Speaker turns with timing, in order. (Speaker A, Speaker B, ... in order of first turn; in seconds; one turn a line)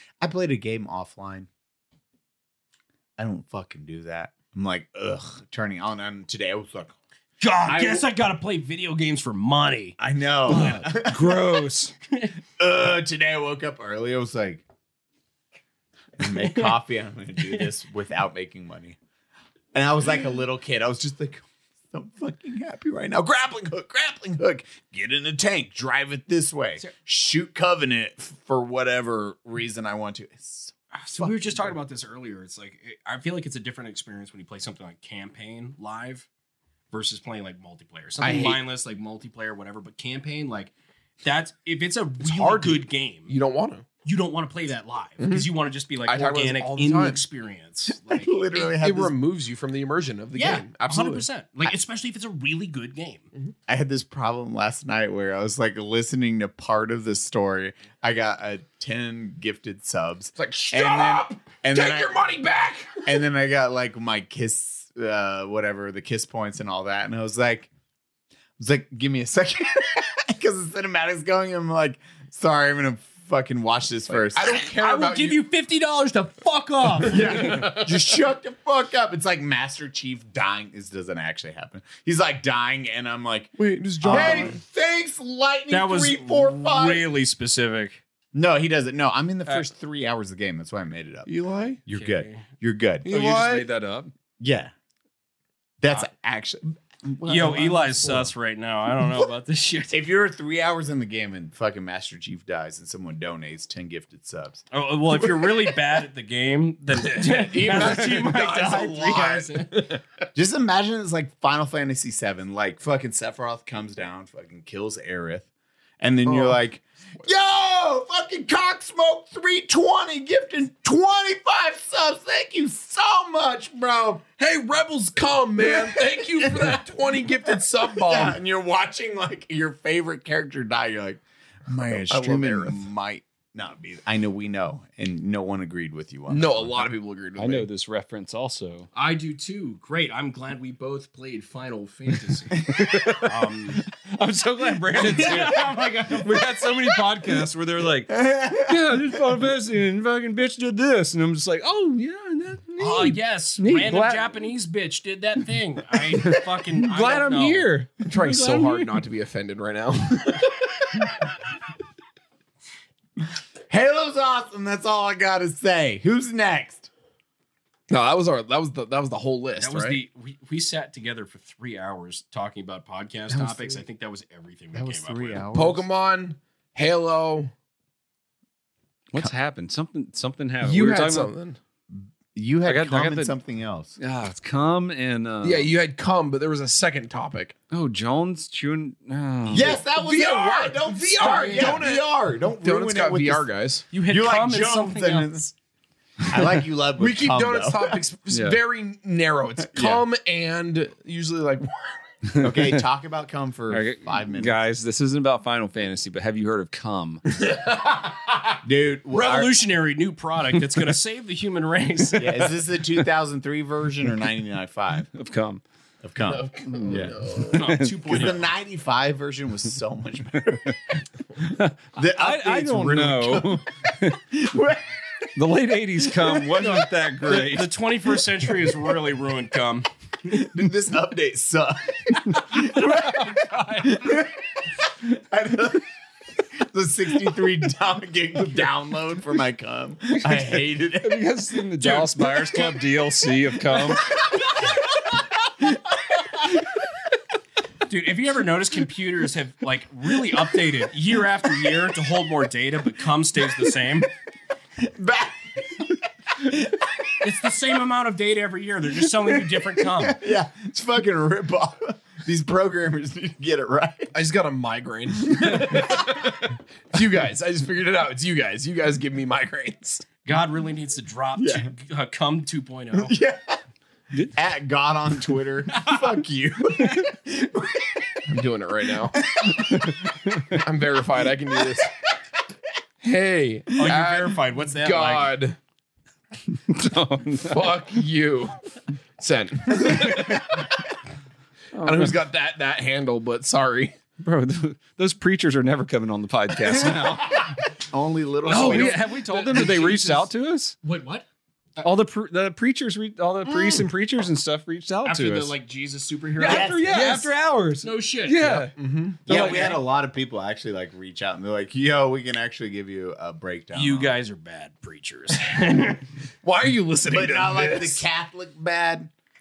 Speaker A: 0.2-1.5
Speaker A: 3.2-6.9
Speaker B: 7.4-11.4
Speaker A: 7.6-8.1
Speaker A: 10.0-11.4
Speaker C: 10.5-11.9
Speaker B: 12.1-12.3
Speaker A: 12.6-14.6
Speaker A: 16.2-19.0
Speaker B: 16.2-16.8
Speaker B: 17.4-17.7
Speaker A: 19.7-31.7
Speaker B: 30.9-36.3
Speaker B: 36.9-43.3
Speaker D: 38.2-38.6
Speaker D: 42.2-43.9
Speaker B: 44.0-48.5
Speaker D: 45.2-45.5
Speaker D: 46.0-47.2
Speaker A: 48.0-49.1
Speaker D: 48.7-51.2
Speaker B: 50.4-53.3
Speaker A: 53.7-62.2
Speaker D: 60.4-63.1
Speaker A: 63.0-67.7
Speaker A: 68.6-74.6
Speaker D: 74.1-75.4
Speaker B: 74.5-77.8
Speaker A: 77.1-87.1
Speaker D: 83.6-84.6
Speaker B: 84.1-84.5
Speaker B: 85.7-88.0
Speaker A: 88.3-91.3
Speaker D: 91.2-91.8
Speaker A: 91.8-93.0
Speaker B: 91.9-92.4
Speaker D: 93.0-93.7
Speaker C: 93.0-94.1
Speaker A: 94.4-94.7
Speaker A: 95.8-98.3
Speaker B: 97.2-100.0
Speaker A: 99.9-104.6
Speaker B: 104.7-109.8
Speaker D: 107.0-110.0
Speaker A: 110.3-115.5
Speaker A: 116.0-124.2
Speaker D: 116.2-116.6
Speaker D: 124.4-128.4
Speaker A: 125.6-126.8
Speaker A: 127.8-136.9
Speaker D: 131.9-132.8
Speaker D: 136.3-137.7
Speaker C: 137.4-138.9
Speaker B: 138.9-143.8
Speaker C: 142.6-154.4
Speaker B: 144.9-146.4
Speaker A: 148.1-149.0
Speaker B: 152.8-157.7
Speaker C: 156.2-159.0
Speaker D: 158.0-160.6
Speaker A: 163.7-166.9
Speaker D: 167.9-170.0
Speaker B: 169.6-175.5
Speaker A: 173.3-173.8
Speaker A: 174.7-175.9
Speaker D: 175.5-177.5
Speaker C: 179.1-181.3
Speaker D: 180.6-181.6
Speaker A: 181.9-183.9
Speaker C: 182.7-183.3
Speaker C: 184.0-185.7
Speaker D: 185.4-187.5
Speaker C: 187.7-189.8
Speaker A: 189.5-193.5
Speaker D: 189.5-193.9
Speaker B: 191.2-191.9
Speaker B: 193.9-195.5
Speaker A: 194.1-195.5
Speaker A: 196.2-198.0
Speaker D: 197.0-202.0
Speaker C: 198.3-198.6
Speaker A: 199.7-200.0
Speaker C: 202.3-202.8
Speaker A: 202.4-204.6
Speaker C: 203.7-207.2
Speaker D: 207.4-208.1
Speaker A: 208.6-209.5
Speaker B: 209.1-212.6
Speaker A: 212.2-215.1
Speaker C: 215.1-215.6
Speaker A: 216.0-217.2
Speaker D: 216.3-217.6
Speaker C: 216.7-218.3
Speaker B: 217.5-218.5
Speaker A: 218.1-220.8
Speaker C: 220.4-220.8
Speaker C: 221.4-224.2
Speaker A: 221.9-225.3
Speaker C: 225.3-227.7
Speaker A: 226.1-226.7
Speaker B: 227.2-229.9
Speaker A: 230.2-234.4
Speaker C: 232.3-234.2
Speaker A: 235.0-235.8
Speaker A: 236.6-242.1
Speaker C: 241.0-244.1
Speaker B: 247.9-254.1
Speaker A: 254.8-257.1
Speaker B: 257.2-260.2
Speaker A: 259.2-264.1
Speaker D: 264.1-270.1
Speaker A: 265.2-266.0
Speaker B: 270.2-273.1
Speaker A: 271.4-271.7
Speaker A: 272.9-273.6
Speaker A: 274.3-278.2
Speaker D: 278.3-279.2
Speaker A: 279.2-279.9
Speaker C: 279.5-280.6
Speaker D: 280.5-281.9
Speaker D: 283.0-285.6
Speaker B: 283.8-285.4
Speaker C: 286.5-287.9
Speaker D: 287.5-288.6
Speaker D: 289.2-290.7
Speaker C: 291.7-292.1
Speaker D: 291.8-293.9
Speaker C: 294.2-297.5
Speaker A: 297.8-299.0
Speaker B: 298.4-300.3
Speaker C: 298.4-300.7
Speaker B: 300.8-301.2
Speaker C: 301.8-305.6
Speaker B: 305.0-307.3
Speaker C: 306.4-308.7
Speaker A: 306.4-306.8
Speaker D: 306.5-307.3
Speaker B: 307.8-308.7
Speaker D: 308.7-309.5
Speaker B: 309.2-309.8
Speaker A: 309.2-314.2
Speaker C: 309.3-309.7
Speaker B: 313.7-316.0
Speaker D: 316.4-318.0
Speaker A: 317.1-319.1